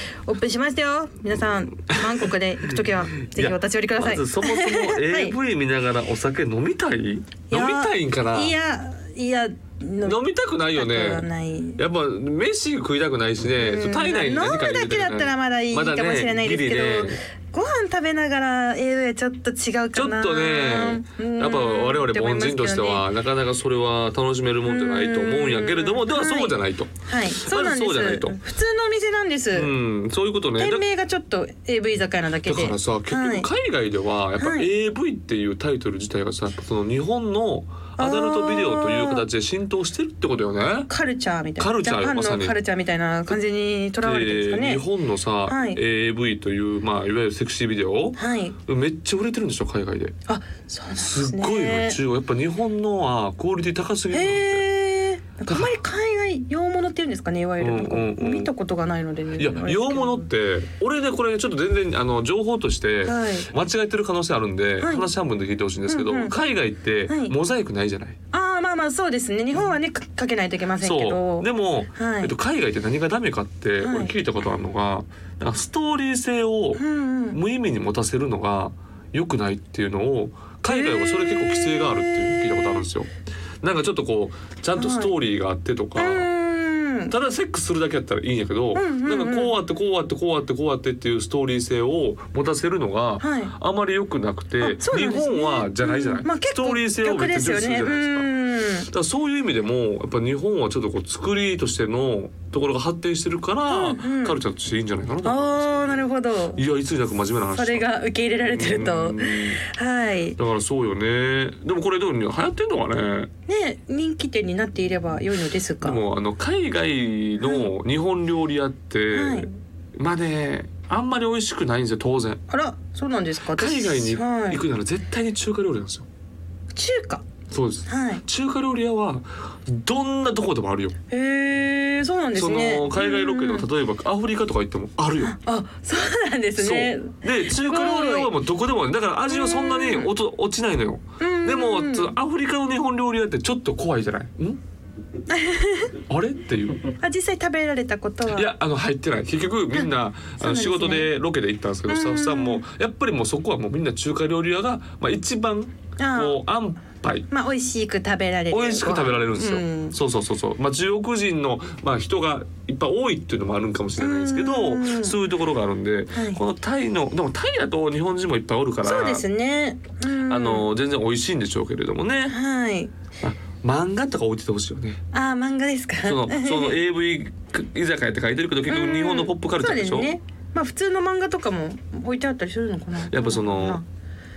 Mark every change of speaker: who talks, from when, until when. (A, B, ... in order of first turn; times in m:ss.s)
0:00.3-0:05.4 A
0:01.9-0:08.6 B
0:07.5-0:10.2 A
0:10.0-0:17.2 B
0:10.7-0:11.8 A
0:13.6-0:23.0 A
0:19.9-0:28.4 B
0:24.6-0:29.7 A
0:29.5-0:30.8 B
0:30.6-0:33.5 A
0:32.4-0:40.9 B
0:34.4-0:34.7 A
0:38.0-0:39.2 A
0:40.9-0:44.8 A
0:41.6-0:42.6 B
0:44.0-0:50.1 B
0:45.5-0:45.8 A
0:48.2-0:48.6 A
0:50.3-0:52.0 A
0:51.0-0:54.6 B
0:54.1-1:00.3 A
0:55.5-0:55.7 B
0:57.6-0:58.5 B
0:59.4-1:08.2 B
1:03.0-1:03.5 A
1:04.8-1:05.1 A
1:05.9-1:06.3 A
1:07.1-1:07.3 A
1:08.3-1:12.3 A
1:10.8-1:23.1 B
1:13.8-1:14.1 A
1:16.8-1:17.4 A
1:20.6-1:22.8 A
1:23.6-1:26.3 B
1:24.8-1:25.1 A
1:26.0-1:27.1 A
1:27.1-1:49.6 B
1:28.7-1:29.6 A
1:33.2-1:33.5 A
1:34.6-1:38.9 A
1:43.7-1:44.4 A
1:45.2-1:46.6 A
1:47.5-1:50.4 A
1:50.4-1:53.3 B
1:53.5-1:56.0 A
1:55.8-2:02.4 B
1:57.4-1:57.7 A
1:59.1-1:59.6 A
2:02.5-2:04.6 A
2:03.5-2:06.1 B
2:06.7-2:07.3 A
2:07.5-2:10.9 B
2:07.9-2:08.2 A
2:11.1-2:13.7 A
2:12.3-2:15.4 B
2:15.2-2:18.3 A
2:16.6-2:24.6 B
2:19.3-2:20.1 A
2:21.2-2:22.2 A
2:25.3-2:25.9 A
2:26.0-2:26.9 B
2:27.0-2:28.5 A
2:28.2-2:37.3 B
2:29.7-2:31.1 A
2:31.9-2:32.6 A
2:36.0-2:36.4 A
2:37.3-2:40.0 A
2:38.5-2:49.2 B
2:44.0-2:45.2 A
2:46.1-2:46.4 A
2:48.8-2:50.7 A
2:50.2-2:52.4 B
2:52.3-2:52.9 A
2:53.2-2:55.0 B
2:55.1-2:56.8 A
2:56.0-3:00.1 B
2:58.7-3:03.8 A
3:03.0-3:03.8 B